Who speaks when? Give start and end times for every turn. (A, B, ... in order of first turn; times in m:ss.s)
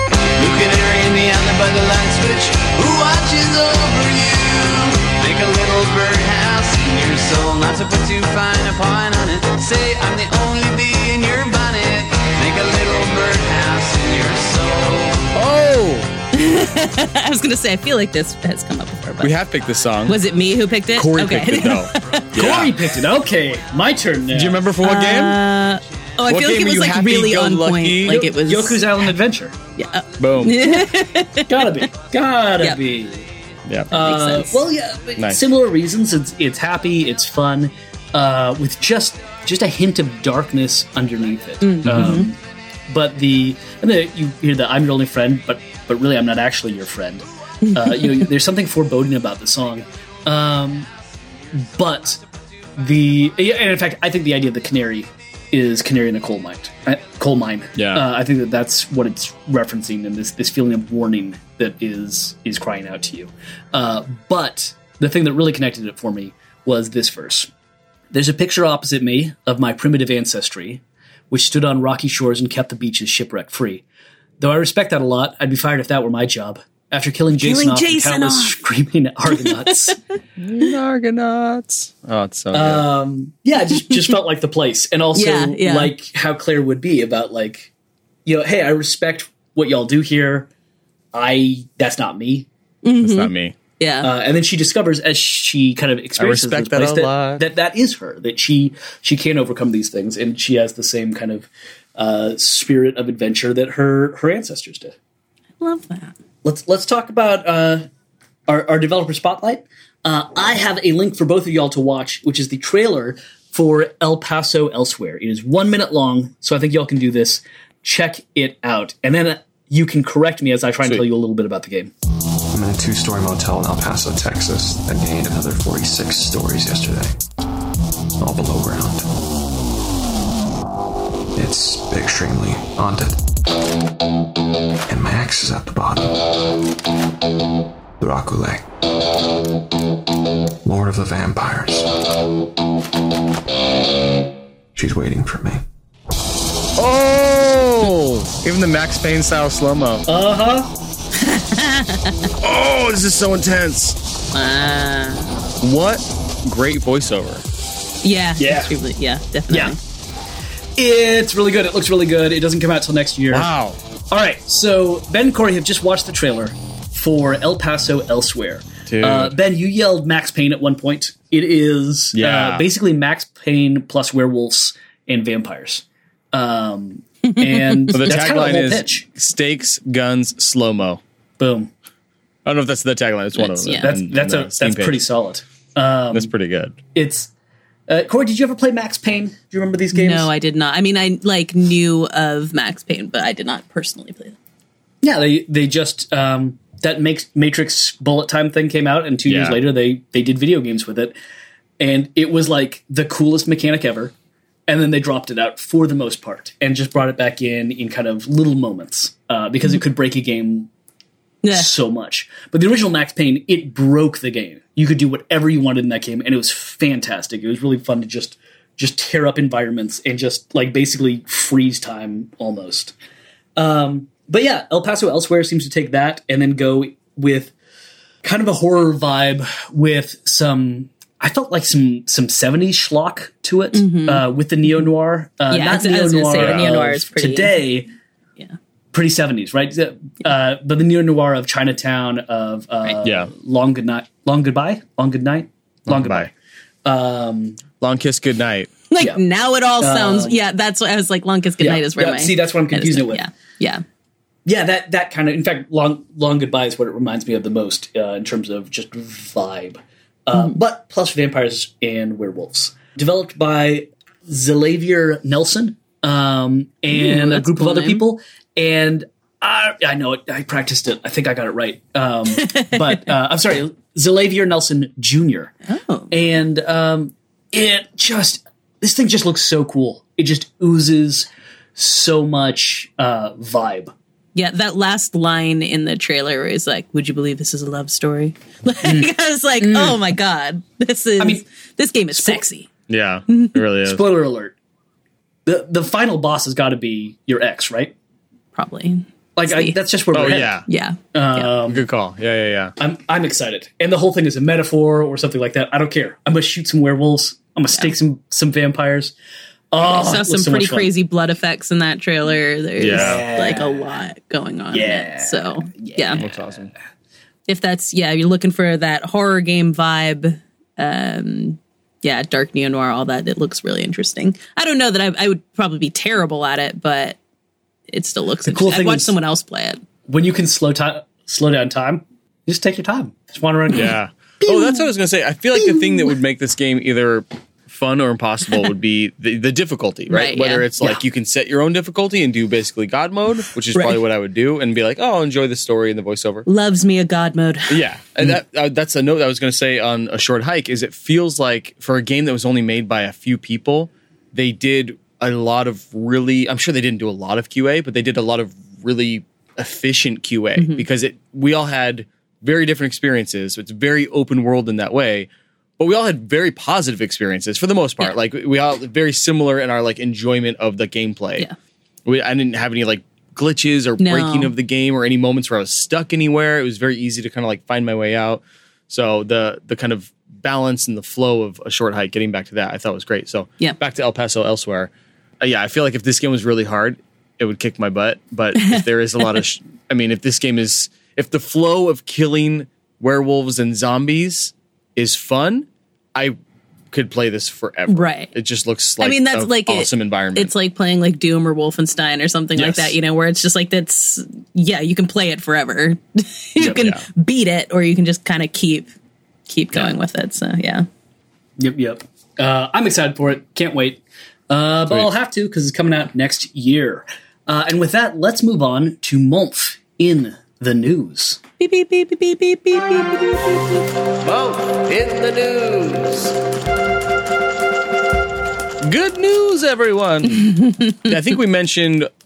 0:00.4-0:15.3 A
0:15.3-0:16.1 B
0:16.3-0:19.3 C
0:19.1-0:20.2 B
0:20.1-0:22.4 C
0:20.9-0:22.8 B
0:22.3-0:24.6 D
0:24.3-0:25.4 B
0:24.8-0:29.1 C
0:26.2-0:28.2 B
0:28.1-0:29.5 D
0:29.8-0:31.7 C
0:30.2-0:30.8 B
0:31.5-0:33.2 D
0:33.6-0:33.9 B
0:33.9-0:50.9 D
0:34.0-0:34.6 C
0:35.2-0:35.4 B
0:41.6-0:42.3 C
0:41.8-0:42.2 B
0:47.6-0:48.3 C
0:51.5-0:52.2 D
0:52.8-1:07.5 D
0:57.8-0:58.1 B
1:08.1-1:13.8 D
1:14.4-1:20.0 D
1:17.3-1:18.6 C
1:19.3-1:19.9 C
1:20.4-1:22.8 B
1:22.5-1:27.7 D
1:25.1-1:25.9 C
1:28.2-1:30.5 D
1:31.1-1:32.5 D
1:32.8-1:34.1 C
1:33.0-1:33.6 B
1:34.0-1:44.9 D
1:36.2-1:37.4 B
1:45.6-1:46.2 C
1:46.4-1:47.9 D
1:48.5-2:01.9 D
2:02.5-2:07.2 E
2:08.2-2:09.2 E
2:11.3-2:13.2 E
2:14.9-2:16.3 E
2:18.0-2:18.6 E
2:20.6-2:21.9 E
2:24.7-2:25.6 E
2:26.8-2:30.0 B
2:30.0-2:30.7 D
2:31.2-2:32.3 C
2:32.4-2:34.0 B
2:34.3-2:35.4 C
2:35.6-2:37.4 B
2:38.0-2:39.8 C
2:38.4-2:38.7 D
2:39.5-2:39.8 D
2:40.8-2:43.5 D
2:43.3-2:43.8 B
2:44.1-2:59.0 D
2:48.9-2:49.4 B
2:52.1-2:52.7 B
2:57.4-2:57.8 C
2:57.9-3:01.0 B
3:01.4-3:01.7 D
3:02.4-3:05.0 B
3:03.4-3:03.9 C
3:03.8-3:06.3 D
3:06.1-3:06.8 B
3:06.9-3:07.3 D
3:07.9-3:10.3 D
3:09.9-3:14.4 C
3:15.0-3:21.1 D
3:19.2-3:19.6 B
3:21.8-3:24.1 D
3:24.7-3:30.7 D
3:31.4-3:31.7 C
3:31.5-3:42.9 D
3:43.6-3:47.5 D
3:48.2-3:57.9 D
3:53.7-3:54.2 C
3:55.5-3:57.6 C
3:56.3-3:56.7 B
3:58.9-4:06.3 D
4:03.0-4:03.3 B
4:05.9-4:06.3 B
4:06.8-4:07.6 D
4:07.8-4:08.7 B
4:08.9-4:13.8 C
4:09.8-4:10.4 D
4:11.6-4:13.2 D
4:14.4-4:35.5 D
4:26.9-4:28.0 C
4:32.4-4:33.0 C
4:35.7-4:36.1 C
4:36.1-4:43.9 D
4:44.3-4:52.7 C
4:48.8-4:50.0 D
4:52.1-4:52.4 D
4:52.9-4:54.0 B
4:53.3-4:53.6 C
4:53.8-4:54.5 D
4:55.4-4:57.9 D
4:58.5-4:59.8 C
4:59.4-5:00.6 D
5:00.1-5:00.6 B
5:00.7-5:01.5 C
5:01.1-5:01.8 D
5:01.6-5:02.7 B
5:02.8-5:09.1 D
5:09.7-5:10.9 D
5:09.8-5:16.2 C
5:12.8-5:13.3 B
5:12.9-5:14.0 D
5:14.7-5:16.7 D
5:16.2-5:16.7 B
5:17.5-5:27.2 C
5:27.9-5:29.8 C
5:28.4-5:29.1 D
5:30.1-5:33.9 D
5:33.7-5:46.4 B
5:34.4-5:34.8 D
5:40.1-5:40.7 C
5:46.4-5:47.8 C
5:47.7-6:11.5 B
6:00.6-6:00.8 C
6:12.0-6:36.4 B
6:14.0-6:14.5 C
6:28.5-6:29.4 C
6:36.9-6:40.5 B
6:37.9-6:38.3 C
6:39.0-6:48.9 C
6:42.6-6:43.0 B
6:46.6-6:47.0 B
6:49.5-6:50.8 C
6:51.6-7:01.4 D
7:01.6-7:03.8 C
7:04.2-7:06.3 B
7:08.8-7:10.5 B
7:10.4-7:11.1 C
7:11.0-7:12.1 B